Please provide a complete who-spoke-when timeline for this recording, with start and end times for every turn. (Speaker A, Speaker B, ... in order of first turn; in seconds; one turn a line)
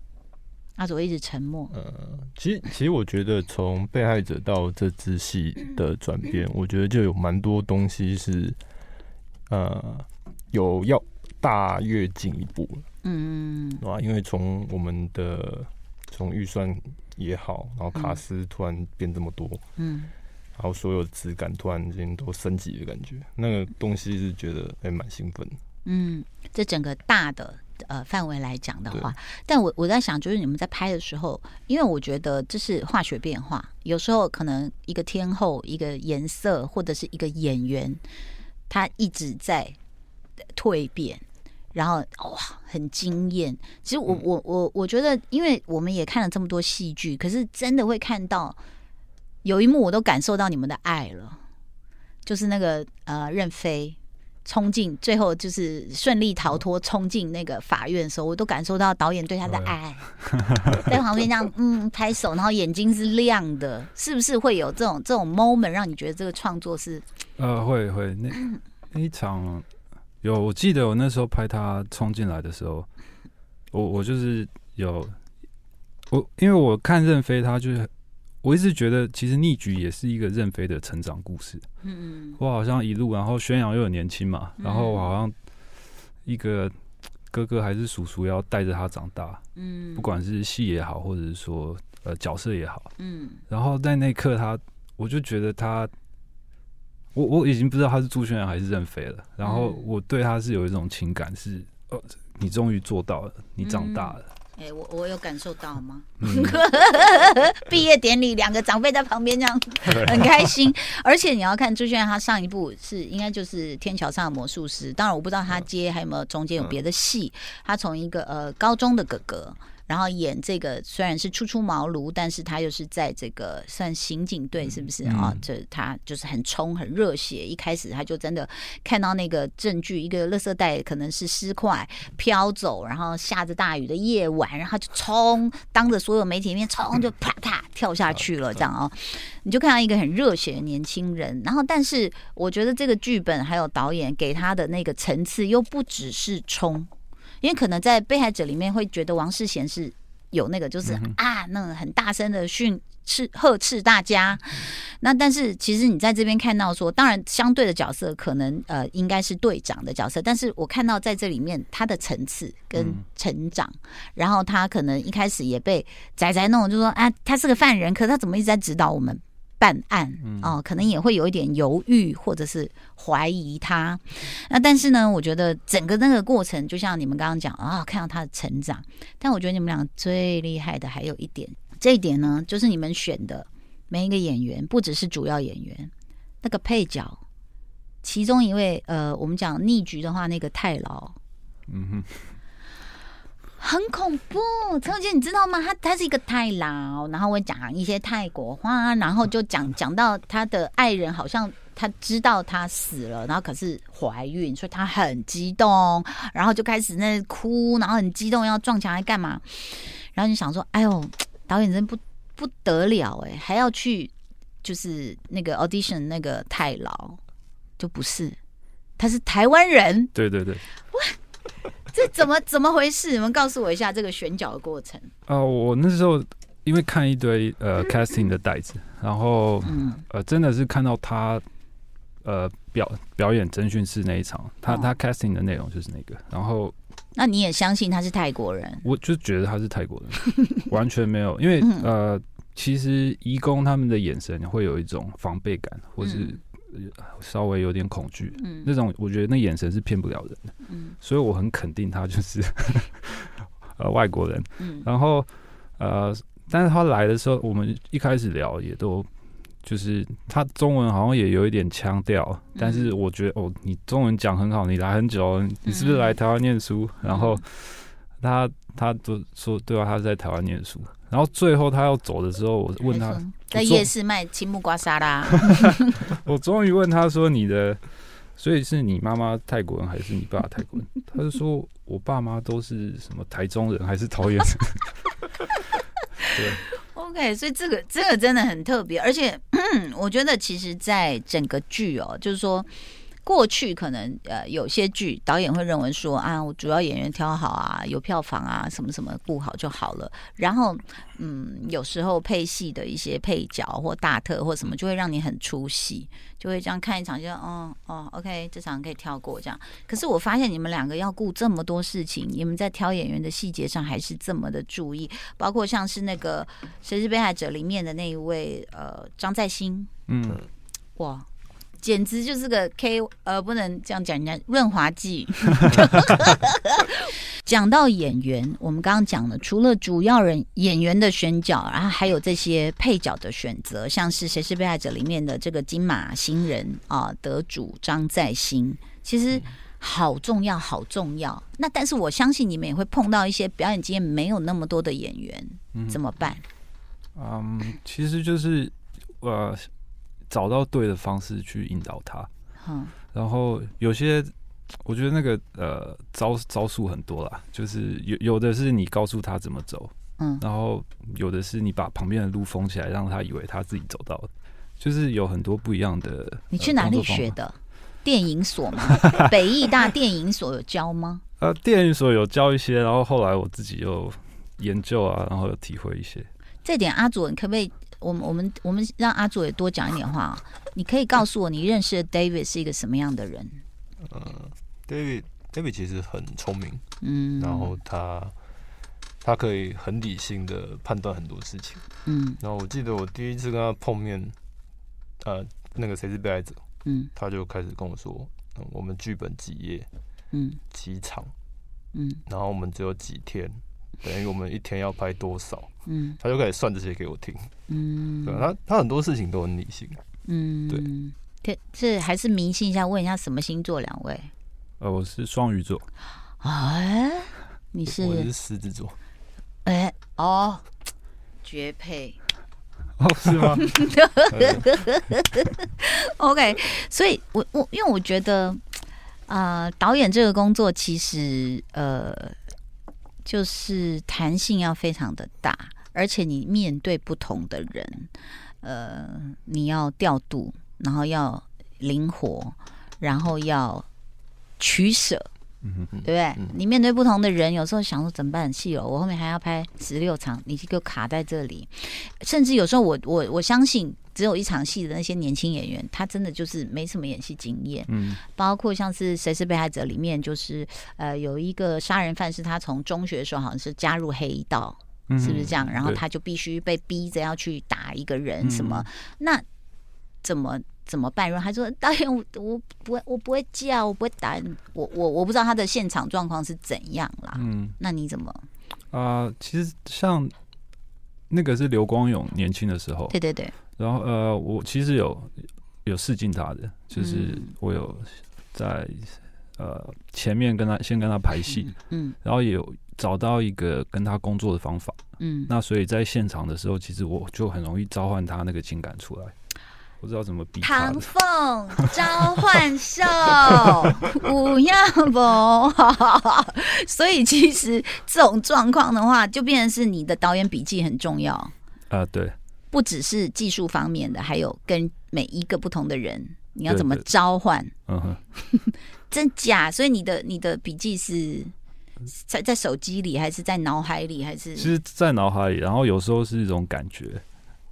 Speaker A: 0.8-1.7
Speaker B: 1.7-8.6
Speaker B: 9.5-12.8
Speaker A: 13.0-13.8
Speaker B: 13.8-19.6
Speaker A: 17.9-18.2
Speaker A: 19.8-20.1
Speaker B: 20.6-25.6
Speaker A: 25.8-38.0
Speaker A: 38.7-39.8
Speaker A: 40.5-41.2
Speaker A: 41.7-48.6
Speaker A: 49.4-51.4
Speaker A: 52.2-60.1
Speaker C: 59.5-60.8
Speaker A: 60.7-67.0
Speaker C: 67.4-69.7
Speaker C: 70.2-72.9
Speaker C: 73.7-75.2
Speaker C: 76.1-77.9
Speaker C: 78.4-81.6
Speaker A: 81.8-82.4
Speaker C: 82.4-85.3
Speaker A: 84.6-85.1
Speaker C: 86.2-86.7
Speaker C: 87.3-89.4
Speaker A: 89.5-90.1
Speaker C: 89.9-92.9
Speaker A: 93.0-93.4
Speaker C: 93.5-95.9
Speaker C: 97.1-104.2
Speaker A: 99.4-99.9
Speaker A: 103.6-146.9
Speaker C: 106.2-106.6
Speaker C: 109.9-110.4
Speaker C: 125.1-125.3
Speaker A: 147.4-187.2
Speaker C: 150.9-151.2
Speaker C: 162.7-163.0
Speaker C: 170.2-170.6
Speaker A: 188.0-191.2
Speaker C: 191.7-192.3
Speaker A: 193.6-214.1
Speaker A: 214.6-217.2
Speaker A: 217.8-218.4
Speaker A: 219.0-220.1
Speaker C: 220.1-220.6
Speaker A: 220.9-221.2
Speaker A: 221.8-225.1
Speaker C: 225.3-231.4
Speaker A: 229.6-230.0
Speaker C: 232.2-236.7
Speaker A: 234.7-234.9
Speaker A: 237.1-238.8
Speaker C: 238.8-259.1
Speaker A: 241.6-241.9
Speaker A: 246.0-246.3
Speaker A: 248.4-248.7
Speaker A: 250.7-250.9
Speaker A: 254.6-254.8
Speaker C: 259.6-273.9
Speaker A: 262.6-262.9
Speaker A: 265.6-266.1
Speaker A: 267.1-267.4
Speaker A: 272.9-276.0
Speaker C: 276.1-285.0
Speaker C: 286.3-286.6
Speaker A: 286.7-292.7
Speaker A: 293.2-319.9
Speaker C: 320.1-320.4
Speaker A: 320.9-321.3
Speaker A: 321.8-346.4
Speaker C: 345.7-346.0
Speaker C: 347.1-349.7
Speaker C: 350.3-352.3
Speaker A: 352.6-352.9
Speaker C: 353.1-367.4
Speaker A: 360.2-360.4
Speaker A: 366.5-371.2
Speaker C: 371.4-376.3
Speaker A: 376.6-383.6
Speaker B: 384.0-386.8
Speaker A: 387.0-387.7
Speaker B: 387.4-388.3
Speaker B: 389.2-391.8
Speaker A: 392.1-392.4
Speaker B: 392.4-394.3
Speaker B: 395.2-396.6
Speaker A: 396.8-397.1
Speaker B: 397.1-399.9
Speaker A: 400.3-400.6
Speaker B: 400.7-401.3
Speaker A: 401.9-402.2
Speaker B: 402.3-407.5
Speaker A: 405.9-406.2
Speaker A: 407.7-408.4
Speaker B: 408.2-410.0
Speaker A: 410.2-414.3
Speaker C: 414.8-415.9
Speaker A: 416.4-418.3
Speaker B: 417.9-418.9
Speaker A: 419.6-420.6
Speaker A: 421.4-422.2
Speaker C: 423.0-423.7
Speaker A: 423.6-428.6
Speaker B: 424.3-424.7
Speaker A: 429.3-432.4
Speaker A: 433.2-438.1
Speaker A: 438.6-443.9
Speaker A: 444.6-445.3
Speaker C: 445.6-445.9
Speaker B: 445.9-446.5
Speaker A: 446.0-469.4
Speaker C: 457.9-458.2
Speaker C: 465.1-466.0
Speaker C: 468.4-468.9
Speaker A: 470.2-478.4
Speaker C: 477.3-477.8
Speaker C: 478.9-480.3
Speaker C: 481.3-483.1
Speaker A: 483.1-483.5
Speaker C: 483.8-499.3
Speaker A: 486.9-487.5
Speaker A: 491.6-492.2
Speaker A: 495.2-495.5
Speaker C: 500.0-501.1
Speaker A: 500.6-511.5
Speaker C: 511.9-512.3
Speaker A: 512.7-517.7
Speaker C: 516.7-517.0
Speaker C: 517.9-518.2
Speaker A: 518.4-521.5
Speaker A: 522.1-524.7
Speaker C: 524.5-527.2